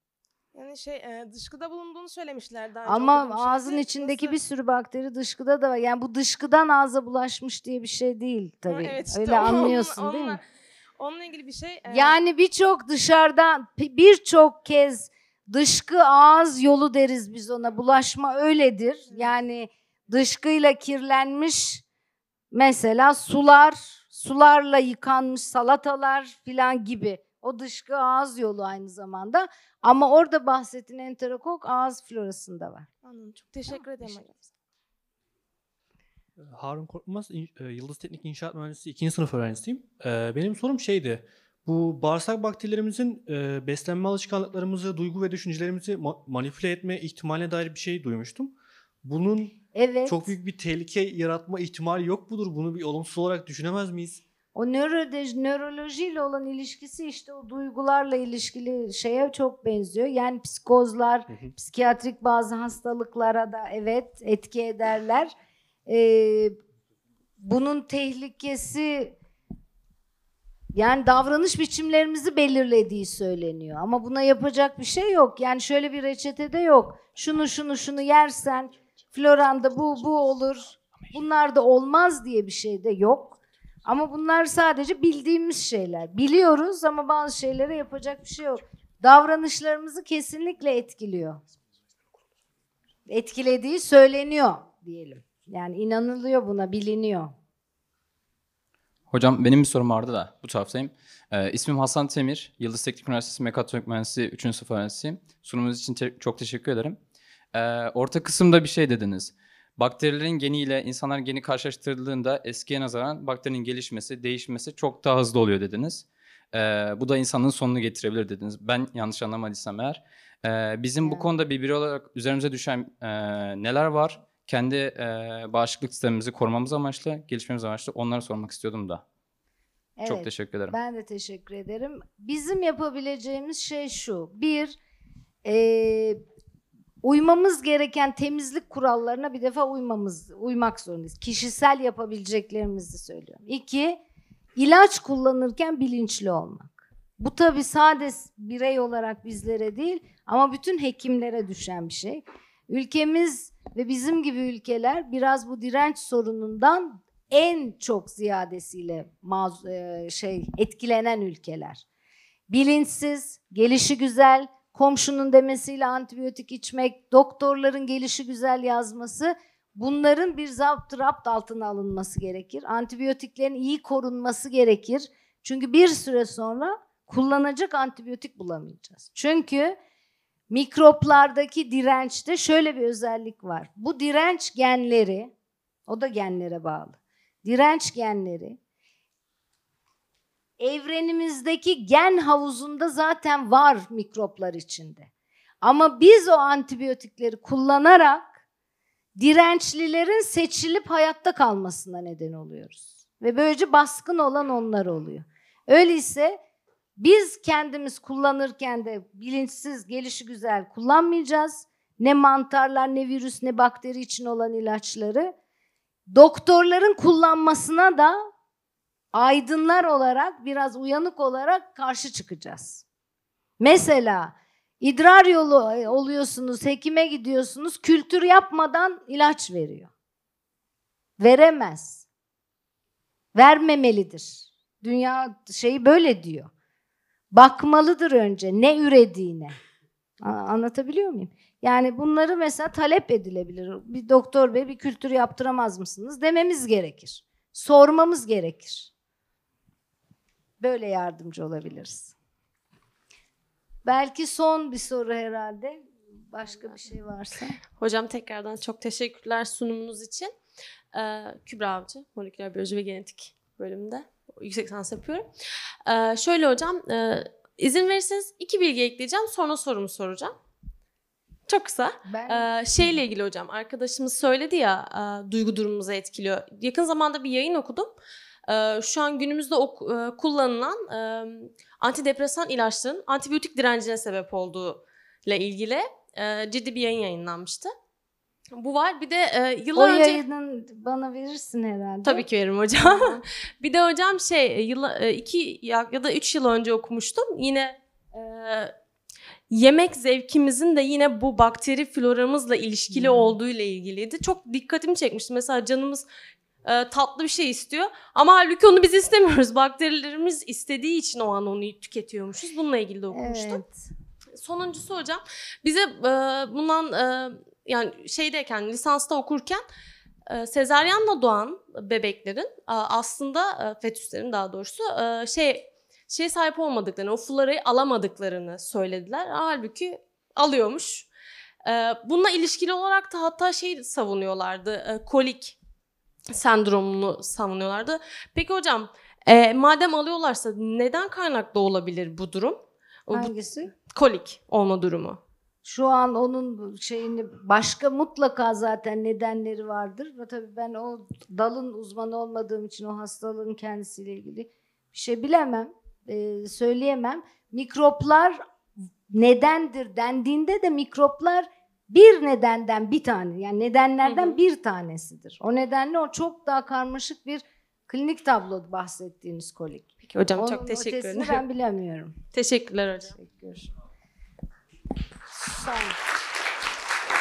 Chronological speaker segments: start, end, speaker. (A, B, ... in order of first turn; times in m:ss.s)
0:00.6-0:04.4 A
0:02.9-0:10.4 B
0:08.7-0:10.4 A
0:11.0-0:12.2 A
0:11.9-0:21.8 B
0:22.5-0:32.9 B
0:33.0-0:34.5 A
0:36.4-0:54.2 C
0:49.8-0:50.4 B
0:54.6-1:05.3 B
1:05.9-1:06.6 B
1:07.4-1:09.2 B
1:10.8-1:31.4 B
1:33.1-1:37.3 B
1:39.1-1:47.0 D
1:47.5-2:09.0 D
2:10.0-2:14.8 B
2:10.1-2:10.8 D
2:15.4-2:16.2 B
2:17.0-2:24.0 B
2:24.6-2:41.8 B
2:42.5-2:59.8 B
3:00.5-3:05.3 B
3:05.9-3:08.6 B
3:10.6-3:15.1 B
3:15.6-3:18.2 B
3:19.2-3:26.4 B
3:27.0-3:35.3 B
3:36.1-3:38.3 B
3:39.1-3:42.8 B
3:43.6-3:49.9 B
3:51.2-3:52.0 B
3:53.4-3:56.5 B
3:57.3-3:59.6 B
4:00.2-4:08.9 B
4:10.6-4:12.1 B
4:13.8-4:17.6 B
4:17.8-4:20.3 E
4:20.9-4:25.3 E
4:25.9-4:30.4 E
4:31.5-4:37.9 E
4:32.1-4:33.0 B
4:38.5-4:47.7 E
4:48.6-4:50.2 E
4:49.8-4:52.2 B
4:52.0-4:58.7 E
4:52.8-4:53.2 B
4:59.5-5:06.1 E
5:02.9-5:03.4 B
5:06.6-5:13.6 E
5:13.1-5:13.9 B
5:14.4-5:19.6 E
5:20.3-5:31.1 E
5:31.6-5:35.6 E
5:36.3-5:45.2 E
5:43.1-5:43.7 B
5:45.6-5:58.4 B
5:59.1-6:12.2 B
6:04.1-6:04.4 E
6:10.1-6:11.4 E
6:12.3-6:13.2 E
6:13.2-6:13.7 B
6:15.3-6:16.0 B